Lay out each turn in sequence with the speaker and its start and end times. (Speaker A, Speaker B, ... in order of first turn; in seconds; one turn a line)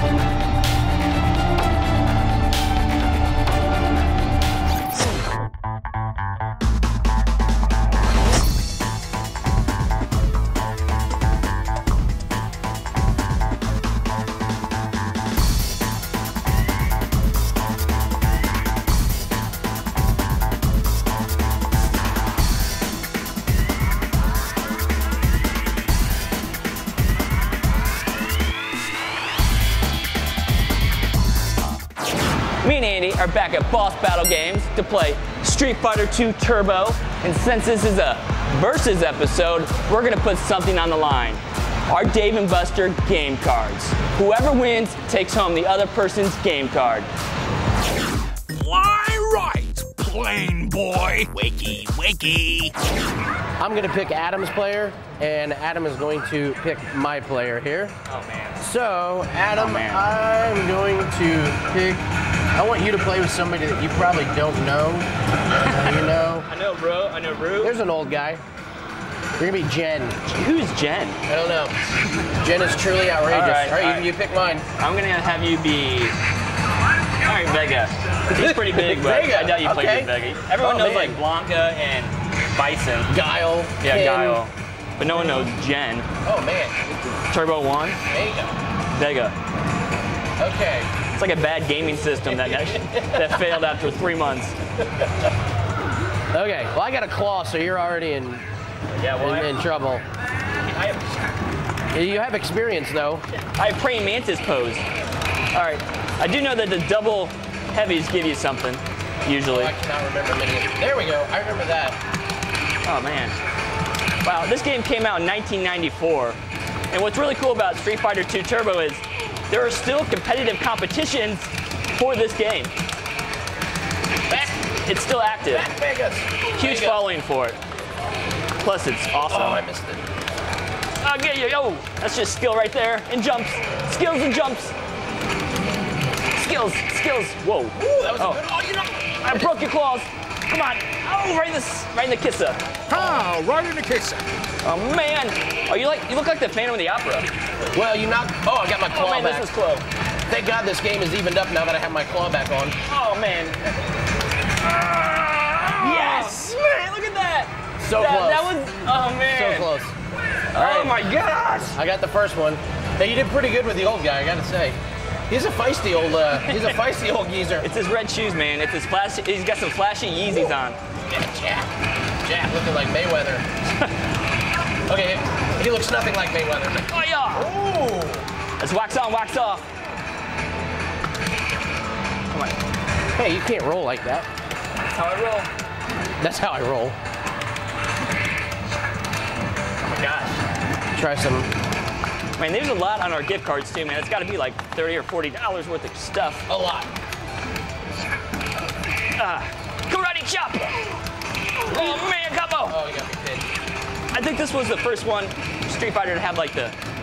Speaker A: 32.6-47.1
Speaker B: 48.5-52.7
Speaker C: 53.6-58.0
Speaker A: 58.1-58.6
Speaker C: 58.6-62.0
Speaker A: 59.5-60.1
Speaker C: 62.5-66.5
Speaker A: 66.5-67.8
Speaker C: 67.6-68.4
Speaker C: 69.4-70.2
Speaker A: 70.3-71.2
Speaker C: 71.3-71.8
Speaker C: 72.4-74.7
Speaker A: 73.3-74.1
Speaker A: 74.8-76.1
Speaker A: 77.2-83.1
Speaker C: 78.3-81.2
Speaker C: 83.1-84.4
Speaker A: 83.8-86.1
Speaker C: 85.1-85.5
Speaker C: 86.2-86.9
Speaker A: 87.3-88.0
Speaker C: 88.1-88.5
Speaker A: 88.9-89.3
Speaker C: 90.4-90.9
Speaker A: 91.1-94.6
Speaker C: 92.5-93.5
Speaker C: 96.3-98.4
Speaker A: 99.0-99.6
Speaker C: 99.2-100.0
Speaker A: 100.7-101.1
Speaker C: 101.9-103.2
Speaker A: 103.5-104.9
Speaker A: 105.5-109.7
Speaker C: 109.5-112.0
Speaker A: 112.8-113.3
Speaker A: 114.2-116.4
Speaker A: 116.9-122.7
Speaker C: 124.3-124.5
Speaker A: 124.3-125.7
Speaker C: 125.4-127.0
Speaker A: 126.5-127.6
Speaker A: 128.6-129.6
Speaker C: 129.2-130.0
Speaker A: 131.0-134.7
Speaker A: 136.3-138.4
Speaker C: 137.9-139.5
Speaker A: 139.2-142.6
Speaker B: 142.9-144.2
Speaker A: 144.6-147.3
Speaker C: 147.7-149.5
Speaker A: 148.9-149.8
Speaker C: 150.3-152.8
Speaker A: 152.9-153.6
Speaker A: 154.6-159.7
Speaker C: 155.8-156.5
Speaker C: 157.8-158.5
Speaker C: 159.2-159.9
Speaker A: 160.5-161.8
Speaker C: 160.5-160.9
Speaker C: 161.7-164.8
Speaker C: 165.3-167.7
Speaker A: 167.6-170.8
Speaker C: 171.1-171.7
Speaker C: 172.2-173.4
Speaker C: 174.9-178.2
Speaker A: 176.9-177.5
Speaker A: 178.6-179.6
Speaker A: 182.3-182.6
Speaker C: 183.2-184.3
Speaker A: 184.9-185.5
Speaker C: 186.2-186.9
Speaker A: 189.8-190.4
Speaker C: 190.9-191.5
Speaker A: 192.4-196.5
Speaker C: 196.5-196.9
Speaker A: 199.2-200.8
Speaker A: 201.7-202.8
Speaker C: 201.7-202.0
Speaker C: 202.7-203.5
Speaker A: 204.1-206.7